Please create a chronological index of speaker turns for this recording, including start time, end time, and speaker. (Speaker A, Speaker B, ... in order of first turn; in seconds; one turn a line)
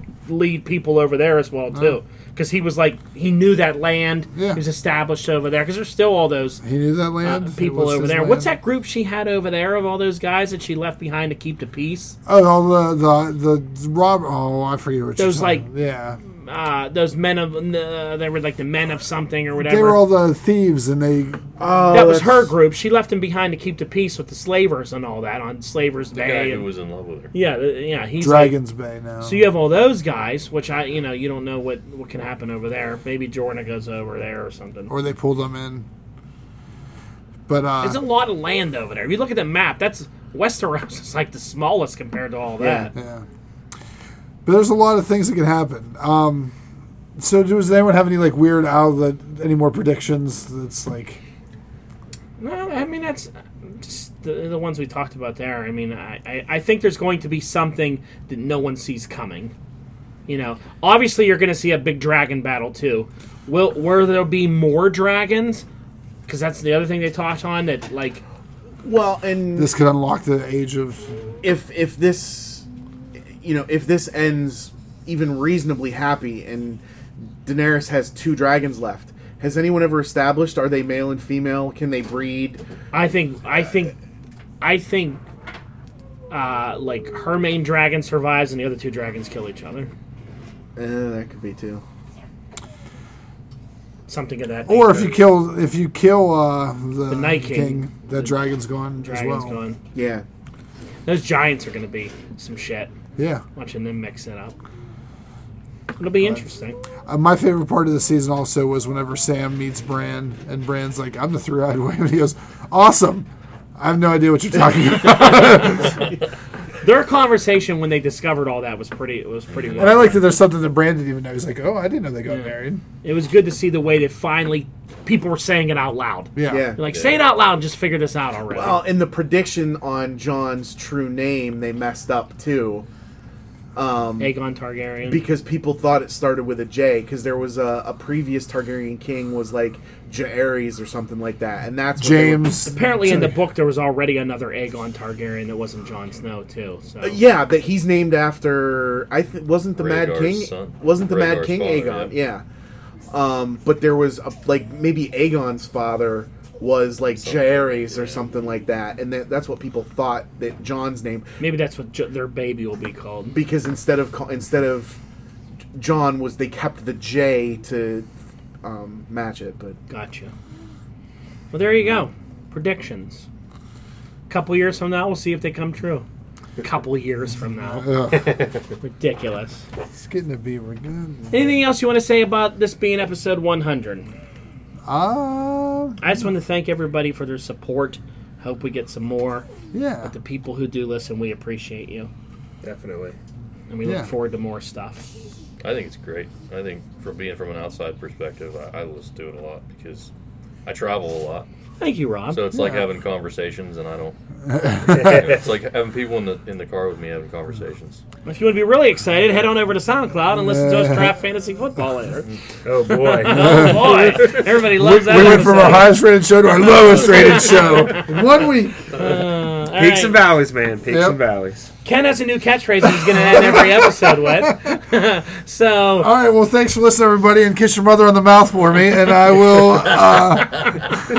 Speaker A: 0.2-6.6
Speaker B: 1.7-2.0
Speaker B: 4.3-4.6
Speaker B: 6.6-8.5
Speaker A: 7.2-12.2
Speaker B: 12.2-16.2
Speaker A: 15.2-15.7
Speaker A: 16.4-20.1
Speaker B: 19.6-21.5
Speaker C: 21.6-22.5
Speaker A: 21.9-26.7
Speaker D: 26.1-27.3
Speaker A: 27.3-28.6
Speaker B: 28.2-29.5
Speaker A: 29.2-34.9
Speaker B: 34.9-35.9
Speaker B: 37.5-38.0
Speaker A: 37.8-42.9
Speaker C: 42.6-42.9
Speaker B: 42.9-43.2
Speaker B: 44.4-46.5
Speaker B: 47.2-51.2
Speaker A: 52.4-59.5
Speaker A: 60.3-65.6
Speaker A: 66.3-68.2
Speaker C: 68.8-69.7
Speaker B: 69.5-71.1
Speaker C: 71.4-72.7
Speaker C: 73.4-76.8
Speaker C: 77.4-82.6
Speaker A: 82.9-83.9
Speaker A: 84.6-85.2
Speaker A: 86.3-89.9
Speaker C: 90.8-91.8
Speaker A: 94.1-95.2
Speaker B: 94.7-99.6
Speaker A: 97.1-98.4
Speaker A: 99.0-99.8
Speaker C: 99.9-100.2
Speaker A: 101.0-102.9
Speaker B: 103.2-103.4
Speaker A: 103.5-104.6
Speaker A: 106.0-106.8
Speaker B: 107.0-116.0
Speaker A: 116.8-120.2
Speaker D: 119.5-120.0
Speaker B: 119.8-122.8
Speaker A: 123.0-128.8
Speaker B: 126.3-126.7
Speaker C: 126.5-126.8
Speaker D: 126.9-127.2
Speaker C: 128.5-132.8
Speaker C: 133.7-134.3
Speaker A: 134.2-135.2
Speaker C: 135.1-142.7
Speaker B: 142.0-143.3
Speaker A: 142.6-147.2
Speaker C: 147.0-152.4
Speaker D: 149.8-152.1
Speaker C: 153.1-161.3
Speaker D: 157.2-158.3
Speaker A: 161.4-163.4
Speaker C: 163.3-165.0
Speaker C: 165.7-168.1
Speaker C: 168.6-169.8
Speaker A: 169.9-170.3
Speaker A: 171.5-173.3
Speaker A: 174.3-176.1
Speaker A: 176.6-177.9
Speaker B: 177.6-178.4
Speaker E: 178.2-178.5
Speaker A: 178.8-179.7
Speaker B: 179.9-181.5
Speaker A: 181.3-184.1
Speaker B: 184.8-186.0
Speaker A: 186.0-189.5
Speaker B: 189.7-190.1
Speaker A: 190.0-192.1
Speaker E: 192.6-193.2
Speaker A: 193.7-195.1
Speaker B: 193.8-194.1
Speaker D: 195.6-200.1
Speaker D: 200.7-201.5
Speaker A: 201.8-202.4
Speaker D: 202.3-204.2
Speaker B: 202.5-202.8
Speaker B: 204.4-205.3
Speaker E: 204.9-205.4
Speaker D: 204.9-208.0
Speaker A: 208.2-212.3
Speaker B: 210.3-211.1
Speaker E: 212.6-214.4
Speaker A: 213.2-216.0
Speaker B: 213.2-218.9
Speaker A: 216.7-218.1
Speaker A: 218.9-220.2
Speaker D: 218.9-219.2
Speaker E: 219.7-221.7
Speaker B: 220.9-221.2
Speaker A: 221.8-226.1
Speaker B: 222.9-224.8
Speaker B: 226.0-230.9